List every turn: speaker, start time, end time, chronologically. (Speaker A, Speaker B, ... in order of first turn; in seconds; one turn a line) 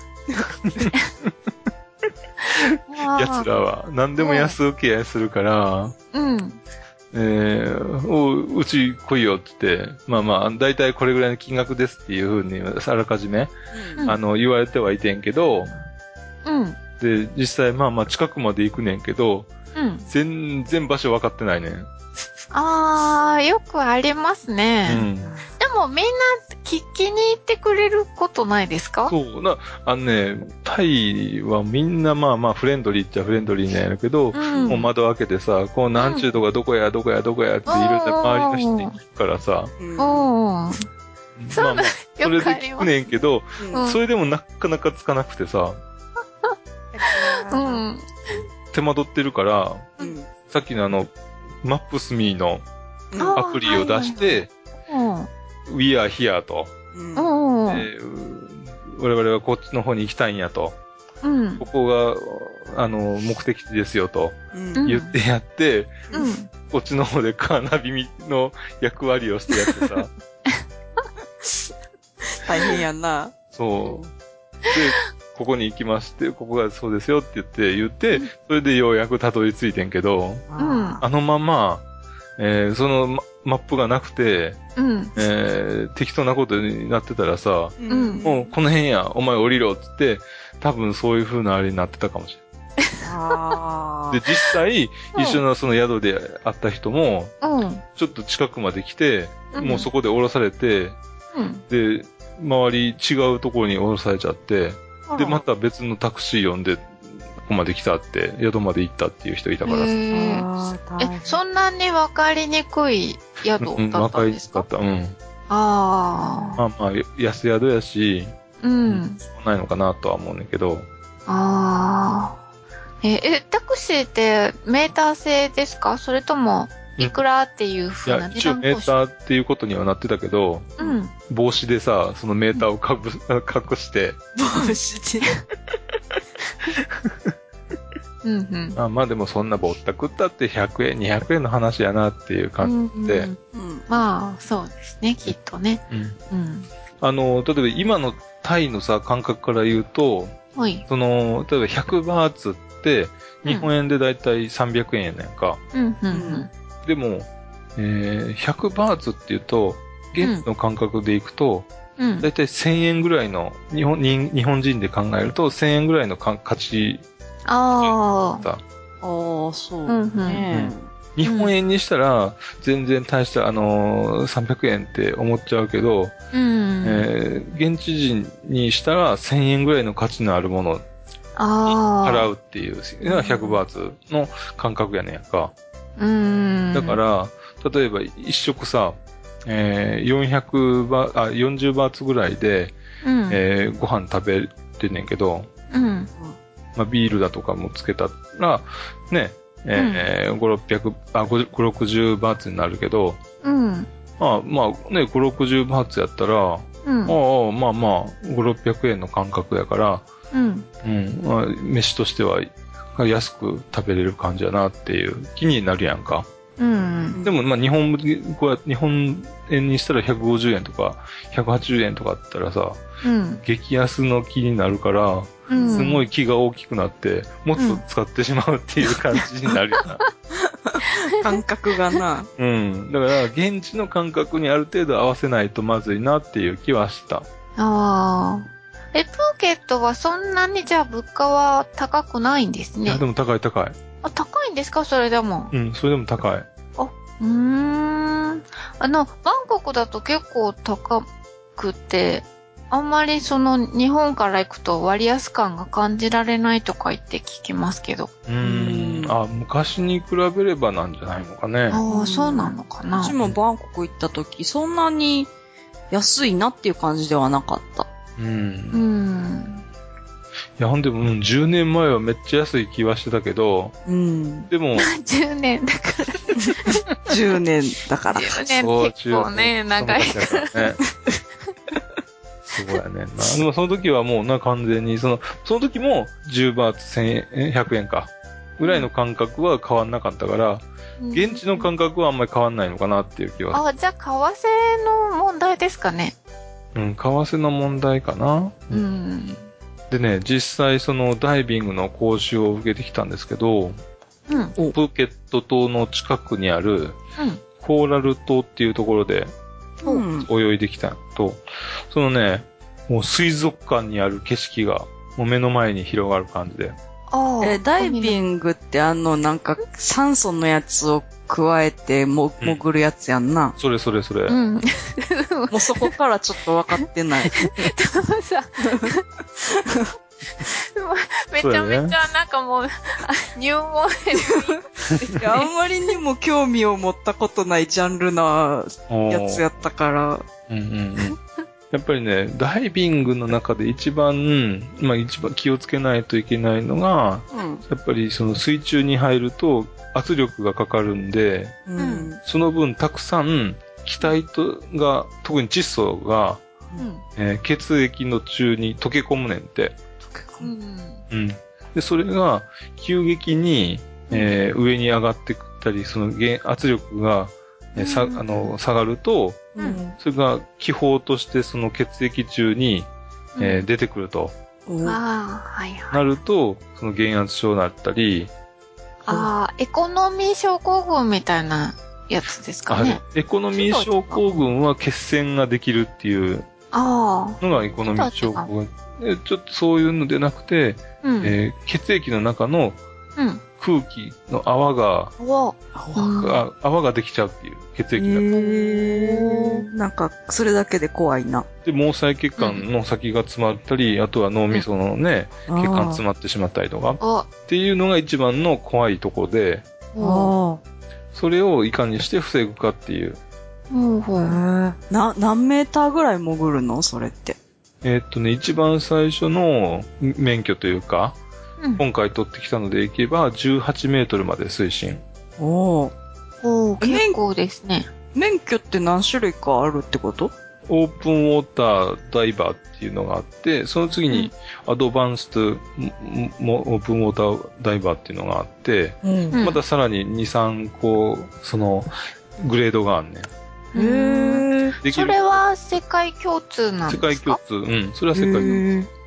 Speaker A: 0.3-0.8
Speaker B: 0.6-1.3
Speaker B: 2.6-6.0
Speaker C: 2.9-3.6
Speaker C: 4.2-4.5
Speaker C: 6.1-6.6
Speaker B: 7.1-15.7
Speaker A: 13.7-14.1
Speaker C: 16.4-16.8
Speaker B: 17.0-19.5
Speaker C: 19.8-20.1
Speaker B: 20.1-21.9
Speaker C: 22.5-25.1
Speaker B: 24.9-25.3
Speaker C: 25.6-29.1
Speaker B: 29.1-39.7
Speaker C: 34.3-34.9
Speaker A: 34.5-34.8
Speaker C: 36.0-36.3
Speaker C: 37.7-39.0
Speaker A: 39.8-40.3
Speaker C: 40.0-40.8
Speaker B: 41.4-45.8
Speaker C: 41.5-43.0
Speaker A: 43.6-43.9
Speaker C: 43.7-44.0
Speaker A: 46.9-47.9
Speaker C: 47.1-48.4
Speaker B: 48.7-51.1
Speaker A: 50.0-50.3
Speaker B: 51.6-52.6
Speaker A: 53.1-53.4
Speaker C: 53.2-55.3
Speaker B: 53.3-54.5
Speaker B: 55.7-56.7
Speaker A: 56.9-57.3
Speaker C: 57.2-57.9
Speaker B: 57.7-60.8
Speaker C: 61.2-61.6
Speaker B: 61.6-66.1
Speaker A: 64.5-64.9
Speaker C: 64.8-65.1
Speaker A: 66.1-66.3
Speaker C: 66.1-66.5
Speaker B: 66.7-70.1
Speaker A: 71.4-71.7
Speaker A: 72.2-73.3
Speaker B: 73.5-74.1
Speaker B: 74.7-80.5
Speaker A: 80.5-81.0
Speaker C: 80.6-81.0
Speaker B: 81.0-81.8
Speaker B: 82.4-84.6
Speaker C: 84.8-85.2
Speaker B: 85.2-92.4
Speaker A: 87.8-88.5
Speaker C: 87.9-88.2
Speaker A: 93.0-94.2
Speaker B: 94.1-97.3
Speaker C: 95.1-95.4
Speaker C: 97.4-97.8
Speaker B: 98.0-101.0
Speaker C: 99.5-99.9
Speaker C: 101.3-101.6
Speaker B: 101.7-110.0
Speaker C: 105.1-105.4
Speaker C: 109.7-114.7
Speaker A: 110.1-111.4
Speaker B: 113.6-115.2
Speaker C: 115.5-116.6
Speaker B: 116.6-118.3
Speaker C: 118.6-119.2
Speaker B: 118.9-120.9
Speaker C: 121.3-122.4
Speaker C: 123.0-129.0
Speaker B: 128.1-130.7
Speaker C: 130.8-131.1
Speaker B: 131.3-134.2
Speaker A: 134.4-135.3
Speaker B: 136.8-137.3
Speaker C: 138.2-138.8
Speaker B: 138.8-143.3
Speaker C: 142.6-143.4
Speaker A: 143.5-144.0
Speaker C: 143.9-146.7
Speaker B: 145.9-146.2
Speaker B: 147.0-150.3
Speaker C: 150.6-150.8
Speaker B: 150.9-155.6
Speaker C: 155.7-156.5
Speaker A: 156.1-156.5
Speaker B: 156.8-161.7
Speaker C: 162.0-162.3
Speaker B: 162.2-167.0
Speaker C: 167.5-168.4
Speaker B: 167.8-168.6
Speaker A: 169.0-170.9
Speaker C: 169.9-170.4
Speaker B: 170.5-176.2
Speaker C: 171.2-171.5
Speaker C: 176.3-177.1
Speaker B: 176.8-180.8
Speaker C: 181.4-182.3
Speaker B: 181.7-185.5
Speaker C: 183.1-183.6
Speaker C: 186.0-187.0
Speaker B: 186.7-192.8
Speaker C: 193.0-193.4
Speaker B: 193.3-195.5
Speaker C: 195.7-196.1
Speaker B: 196.8-203.2
Speaker C: 199.8-200.1
Speaker C: 203.4-203.9
Speaker B: 204.2-210.1
Speaker C: 206.8-207.2
Speaker C: 210.3-210.7
Speaker B: 210.8-216.3
Speaker C: 216.6-217.2
Speaker B: 217.2-222.8
Speaker C: 223.0-223.4
Speaker B: 223.4-230.0
Speaker C: 225.5-226.1
Speaker A: 225.5-225.9
Speaker C: 227.6-227.8
Speaker A: 230.3-232.3
Speaker B: 232.4-237.3
Speaker C: 237.6-243.0
Speaker B: 242.9-243.8
Speaker C: 244.0-245.5
Speaker B: 245.5-246.5
Speaker C: 246.8-251.1
Speaker C: 251.6-258.1
Speaker B: 258.3-261.8
Speaker A: 258.4-259.2
Speaker C: 261.7-263.1
Speaker A: 261.9-265.3
Speaker A: 265.9-267.9
Speaker B: 268.2-268.8
Speaker C: 268.7-269.6
Speaker B: 270.6-273.8
Speaker A: 273.9-274.5
Speaker B: 274.5-274.9
Speaker C: 274.8-277.1
Speaker A: 276.4-278.4
Speaker C: 278.1-280.8
Speaker B: 278.5-280.8
Speaker B: 282.5-293.6
Speaker C: 291.0-291.7
Speaker C: 293.5-296.1
Speaker B: 296.8-298.8
Speaker C: 298.7-299.5
Speaker B: 299.9-303.8
Speaker C: 304.3-304.6
Speaker B: 304.7-307.0
Speaker C: 307.2-307.4
Speaker B: 307.6-309.3
Speaker A: 309.8-310.3
Speaker B: 310.2-316.8
Speaker C: 317.1-318.2
Speaker A: 317.4-323.6
Speaker B: 323.6-324.4
Speaker C: 324.3-325.9
Speaker A: 325.5-327.5
Speaker C: 326.8-329.0
Speaker C: 330.4-335.5
Speaker B: 331.4-332.0
Speaker A: 334.2-334.6
Speaker A: 335.1-340.2
Speaker B: 338.9-339.5
Speaker B: 340.5-341.2
Speaker B: 341.7-351.6
Speaker A: 347.3-347.6
Speaker A: 351.7-352.2
Speaker C: 351.8-352.1
Speaker B: 352.2-356.4
Speaker C: 356.8-357.0
Speaker B: 357.2-359.8
Speaker A: 360.1-360.5
Speaker C: 360.4-361.0
Speaker B: 361.1-372.9
Speaker C: 367.8-368.5
Speaker A: 369.6-370.0
Speaker C: 373.4-373.7
Speaker B: 373.4-374.3
Speaker A: 374.7-375.0
Speaker C: 374.8-376.0
Speaker B: 375.9-378.3
Speaker C: 379.0-383.0
Speaker B: 382.7-386.5
Speaker C: 383.5-384.2
Speaker C: 386.7-388.5
Speaker B: 387.4-392.8
Speaker C: 391.0-391.3
Speaker C: 393.2-393.4
Speaker B: 393.6-395.1
Speaker C: 395.2-396.4
Speaker A: 395.8-396.3
Speaker B: 396.2-398.3
Speaker A: 398.0-401.5
Speaker C: 398.4-399.6
Speaker B: 401.6-409.6
Speaker C: 402.4-402.6
Speaker A: 405.5-406.0
Speaker C: 407.0-407.3
Speaker C: 409.9-410.3
Speaker A: 410.0-410.6
Speaker B: 411.1-413.2
Speaker C: 413.7-414.4
Speaker A: 414.2-417.4
Speaker B: 417.8-421.2
Speaker B: 421.8-425.0
Speaker A: 425.4-425.9
Speaker C: 426.4-427.9
Speaker A: 426.8-427.2
Speaker A: 428.1-430.3
Speaker B: 430.7-443.3
Speaker A: 439.0-439.4
Speaker C: 439.3-439.6
Speaker C: 443.7-447.4
Speaker A: 443.8-444.8
Speaker B: 444.8-445.4
Speaker B: 446.9-448.6
Speaker A: 448.1-448.9